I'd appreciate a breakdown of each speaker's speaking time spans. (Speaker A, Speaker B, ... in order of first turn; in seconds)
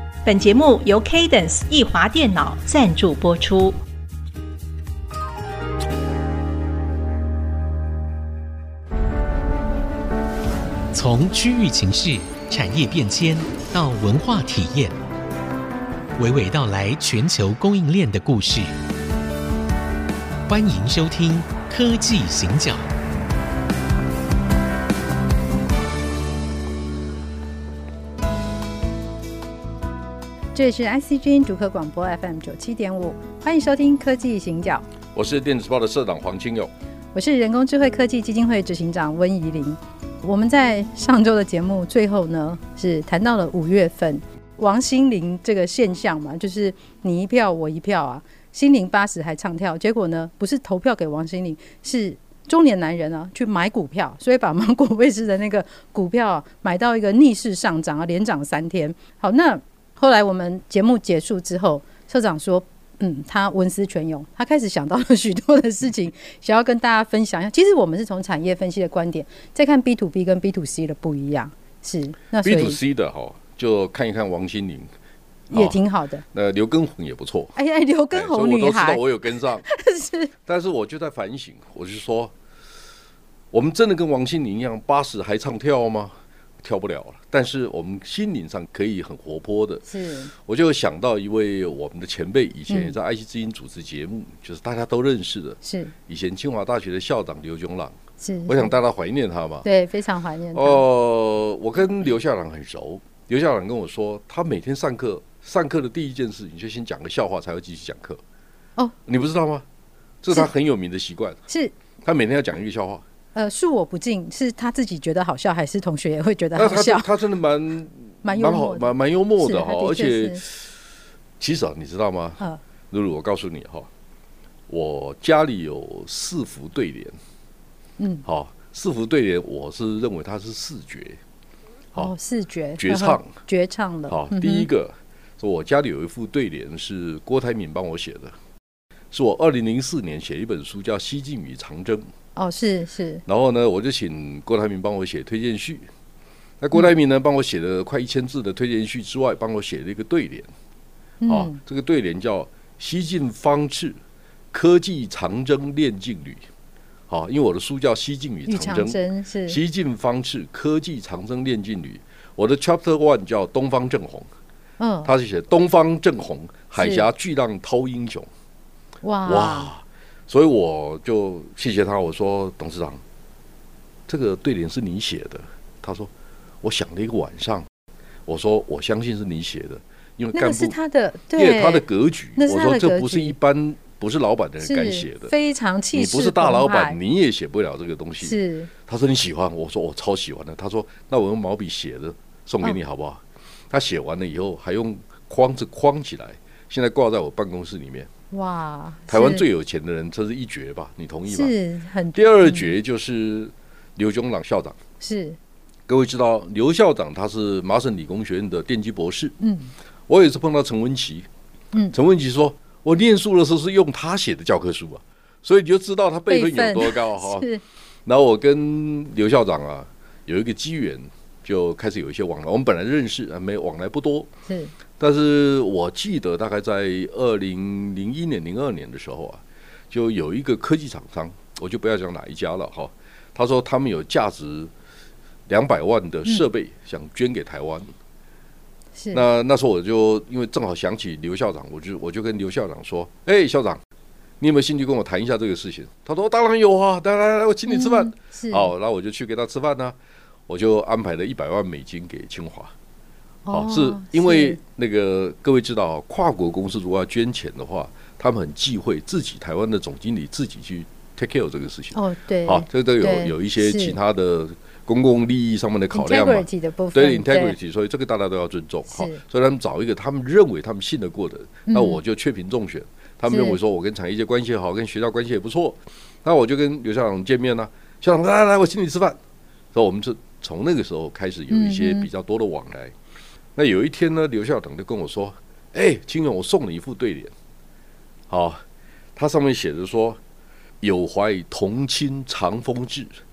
Speaker A: 0.2-3.8
Speaker B: 10.9-14.9, 16.2-18.7, 20.5-22.9
Speaker C: 30.5-34.8, 37.1-72.8, 75.5-76.2, 77.5-79.0, 79.6-80.3, 89.9-90.3, 92.7-92.9, 95.6-95.9, 98.2-98.7, 99.6-100.8, 111.5-111.7, 113.3-117.0, 118.2-120.4, 128.0-128.2, 131.9-134.7, 142.3-143.2, 151.2-151.6, 158.5-159.6, 164.8-165.1, 166.8-167.1, 169.0-169.7, 180.3-181.8, 182.4-183.3, 184.6-187.0, 188.2-188.7, 198.3-199.4, 201.3-202.7, 205.0-205.4, 209.4-209.7, 216.3-217.6, 224.5-224.7, 239.0-239.2, 247.7-248.7, 253.4-254.6, 261.9-263.9, 265.9-267.5, 268.9-269.2, 271.7-272.0, 273.2-273.6, 281.5-282.1
Speaker D: 35.1-36.7, 72.4-74.9, 75.5-75.8, 76.3-77.5, 78.1-79.6, 80.5-82.3, 83.5-99.7, 100.5-108.2, 109.0-109.6, 110.2-111.4, 112.0-113.0, 116.5-120.7, 121.4-123.9, 124.7-127.1, 128.2-131.2, 132.8-133.3, 134.1-138.3, 139.1-142.1, 143.2-145.9, 146.6-150.5, 151.3-154.0, 154.5-156.4, 157.1-164.3, 165.0-168.3, 169.2-173.0, 174.1-176.1, 176.6-177.7, 178.2-180.8, 181.3-185.3, 185.9-198.1, 199.1-201.5, 202.1-204.8, 205.9-209.3, 210.1-211.3, 211.9-217.5, 218.1-224.3, 225.0-234.7, 235.5-237.9, 239.1-243.8, 244.4-250.0, 250.5-252.7, 253.5-279.2, 279.7-282.9, 283.6-287.3, 288.3-288.6, 289.1-290.2, 290.8-293.2